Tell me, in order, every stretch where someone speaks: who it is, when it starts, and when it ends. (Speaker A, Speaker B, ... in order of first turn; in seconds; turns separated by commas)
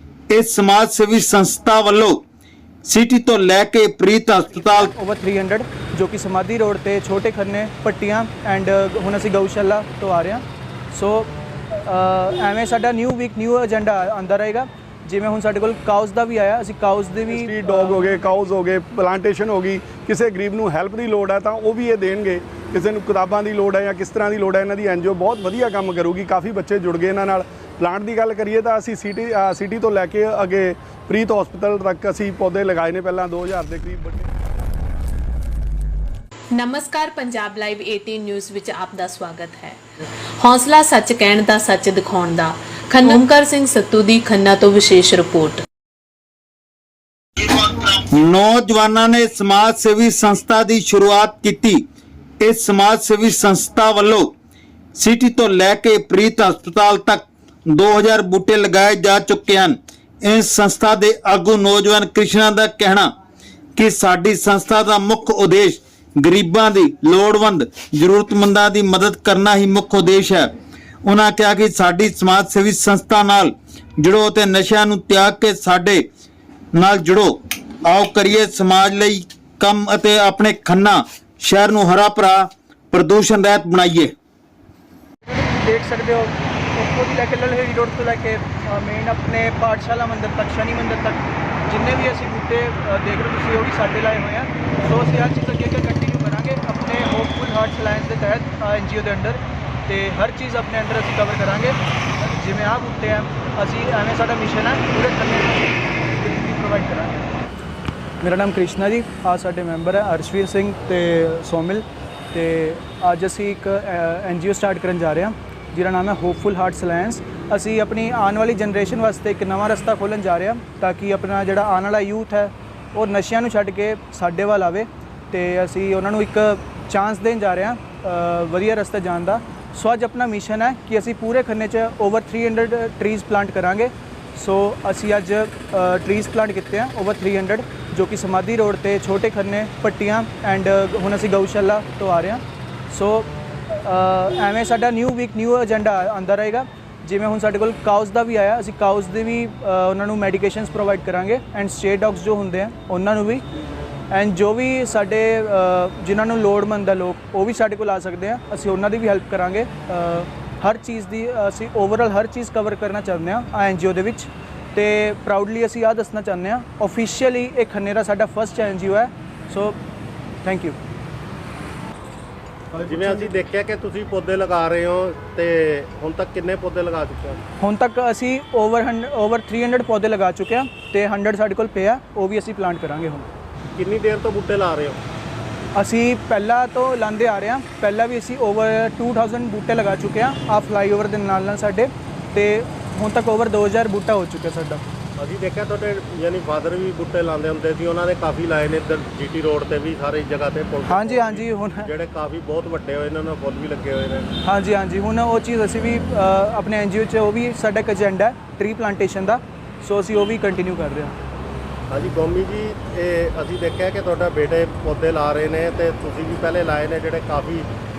Speaker A: 0.3-2.2, Speaker A: 2.9-4.9, Speaker B: 4.8-18.1, Speaker C: 17.3-34.3, Speaker D: 36.5-39.8, Speaker D: 40.4-45.6, Speaker A: 47.4-51.8, Speaker A: 52.4-54.3, Speaker A: 55.0-63.1, Speaker A: 63.8-70.5, Speaker A: 71.0-76.0, Speaker A: 76.7-84.1, Speaker B: 85.2-107.2, Speaker B: 108.2-153.4, Speaker B: 154.1-169.8, Speaker B: 170.4-170.8, Speaker E: 172.8-177.4, Speaker B: 177.6-183.3, Speaker E: 183.8-185.0, Speaker B: 185.7-194.8, Speaker E: 195.2-204.3, Speaker B: 200.9-201.9, Speaker B: 204.4-211.2, Speaker E: 211.9-217.7